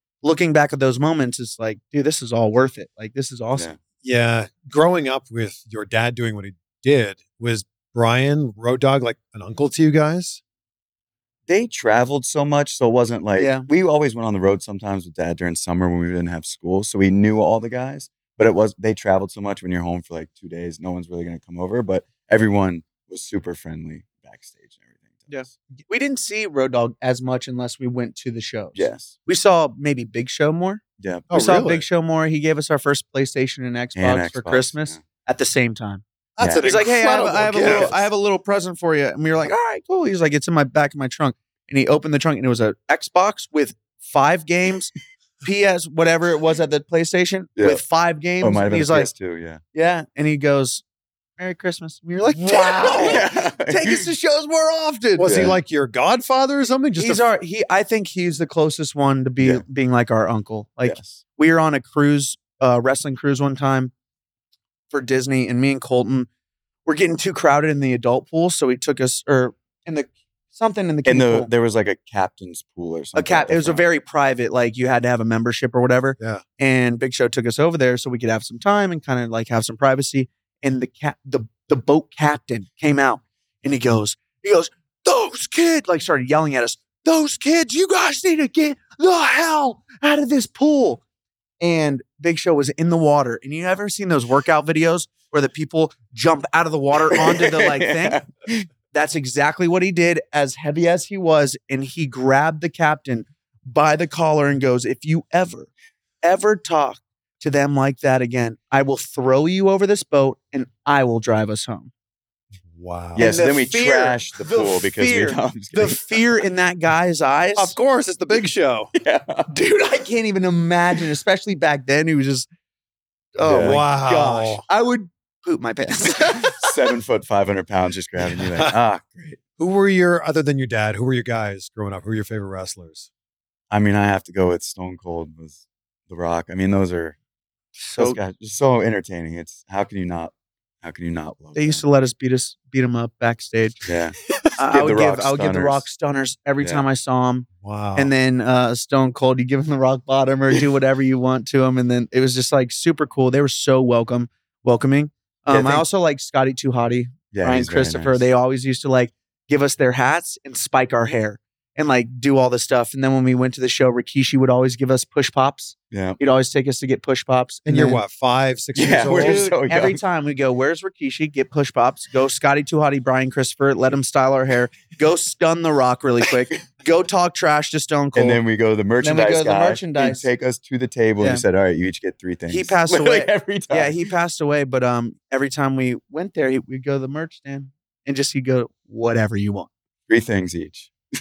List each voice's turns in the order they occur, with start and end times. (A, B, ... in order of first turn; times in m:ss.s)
0:00.2-0:03.7 A
0:04.0-0:10.4 B
0:11.5-0:25.4 C
0:13.4-0:13.7 A
0:25.3-0:36.0 A
0:28.7-0:29.1 C
0:31.0-0:31.4 C
0:31.3-0:31.8 B
0:33.9-0:35.0 C
0:36.4-0:37.9 B
0:36.4-0:36.7 C
0:36.6-0:49.1 A
0:37.6-0:38.0 C
0:47.6-0:47.8 C
0:48.4-0:49.6 C
0:49.7-0:50.8 A
0:51.4-0:55.4 A
0:52.4-0:53.2 B
0:52.9-0:54.0 C
0:55.2-0:57.3 B
0:55.3-0:55.6 C
0:57.0-1:03.9 A
1:00.8-1:01.2 C
1:04.9-1:06.3 A
1:06.9-1:11.5 A
1:11.0-1:13.8 C
1:13.1-1:31.0 A
1:31.6-1:38.2 A
1:37.1-1:38.7 C
1:38.9-1:45.7 A
1:46.2-1:51.9 A
1:52.8-1:53.3 B
1:53.1-1:56.3 C
1:53.2-1:57.8 A
1:57.6-1:58.9 B
1:58.9-1:59.5 C
1:59.5-2:02.5 A
2:03.3-2:06.8 A
2:03.4-2:03.8 C
2:03.6-2:04.6 B
2:06.4-2:09.4 C
2:09.6-2:13.1 B
2:13.7-2:17.2 C
2:17.8-2:18.2 A
2:18.0-2:21.8 C
2:21.5-2:23.8 A
2:23.8-2:25.8 C
2:24.6-2:48.0 A
2:27.6-2:28.1 B
2:35.5-2:35.8 C
2:37.3-2:38.2 C
2:45.9-2:46.2 C
2:47.6-2:49.5 B
2:48.8-2:50.0 C
2:49.0-2:58.4 A
2:58.1-3:03.9 C
2:59.0-3:00.2 A
3:02.5-3:09.7 A
3:10.1-3:10.9 C